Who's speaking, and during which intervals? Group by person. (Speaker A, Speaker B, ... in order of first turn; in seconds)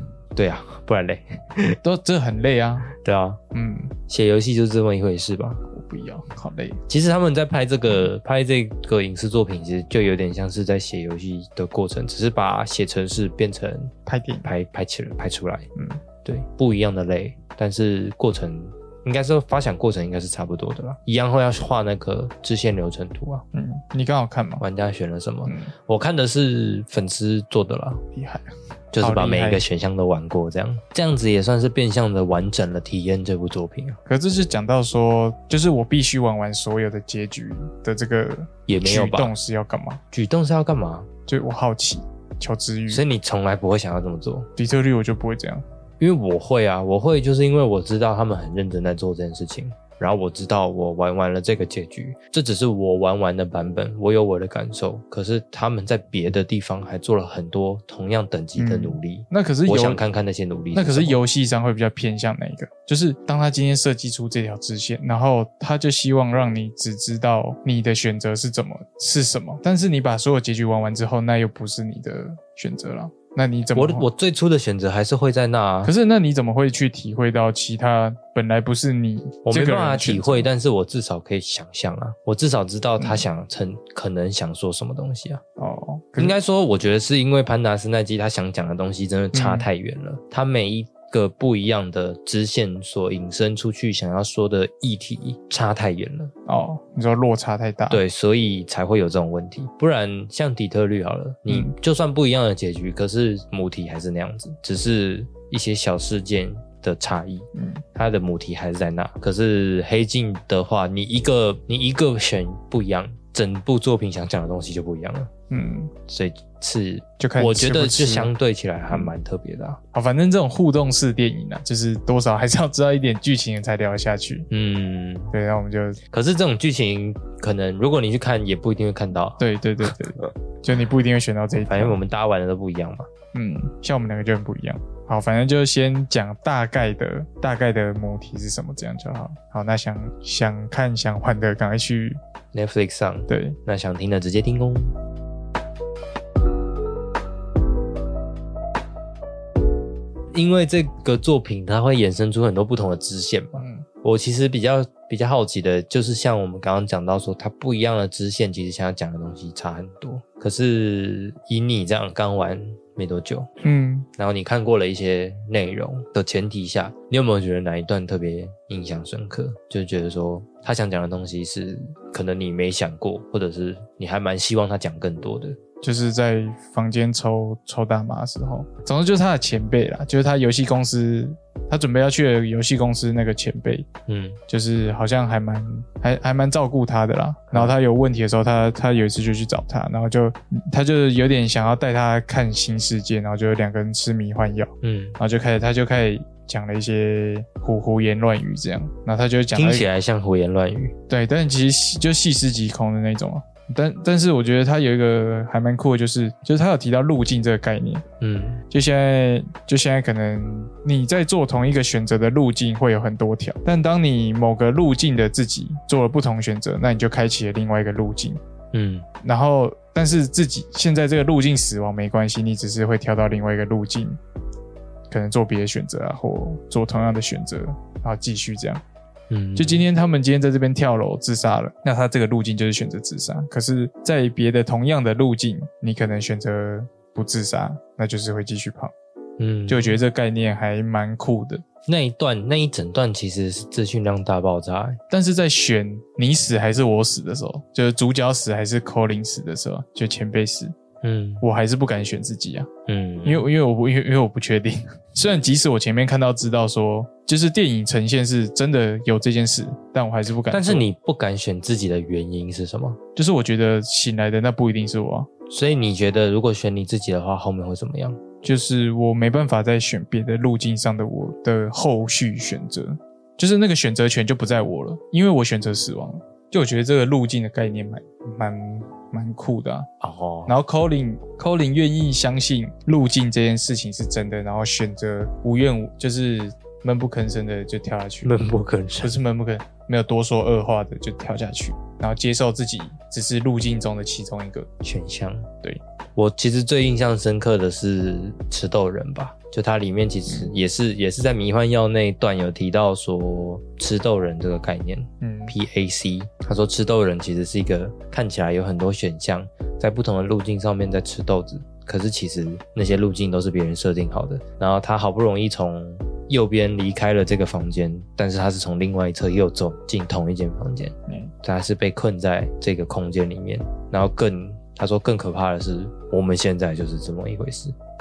Speaker A: 0.3-1.8, 2.9-3.4, 4.1-5.6, 6.9-13.9, 14.4-15.7, 16.2-23.4, 24.6-28.0, 28.9-34.0, 38.7-39.3, 40.1-41.1, 42.9-44.5, 46.0-61.2, 73.7-75.9, 79.4-85.4, 86.2-96.3, 97.9-115.3, 116.1-119.8, 124.5-125.3, 126.1-129.4, 131.6-133.1, 142.5-144.9, 150.3-163.5, 164.2-175.6, 184.1-184.4, 194.8-195.2, 199.5-200.9, 208.2-208.6, 218.7-219.1, 229.3-229.9, 239.4-240.0, 241.9-245.0, 251.0-251.4, 252.9-253.5, 260.5-263.0, 265.5-268.2, 280.0-280.5, 288.2-289.1, 294.8-295.5, 296.1-327.7
Speaker B: 1.8-2.9, 3.5-3.9, 5.7-6.8, 14.1-14.5, 15.8-16.0, 23.5-24.6, 25.4-25.7, 28.1-28.5, 29.0-29.6, 34.0-40.0, 41.3-43.0, 44.6-45.6, 58.6-60.0, 60.7-74.1, 75.8-80.5, 83.0-83.2, 85.6-86.4, 89.3-89.7, 96.5-98.0, 107.5-107.8, 115.5-115.9, 117.2-118.3, 119.9-124.5, 125.3-126.0, 129.4-132.0, 133.3-142.2, 143.3-143.6, 153.6-153.8, 163.6-164.1, 175.8-183.9, 184.5-199.9, 201.1-208.0, 208.7-218.4, 219.2-224.2, 225.1-228.8, 229.6-238.9, 239.7-241.6, 245.1-250.7, 251.4-252.7, 253.2-260.9, 263.1-265.3, 268.4-279.9, 280.5-288.3, 289.0-294.7, 305.2-305.6, 321.1-321.3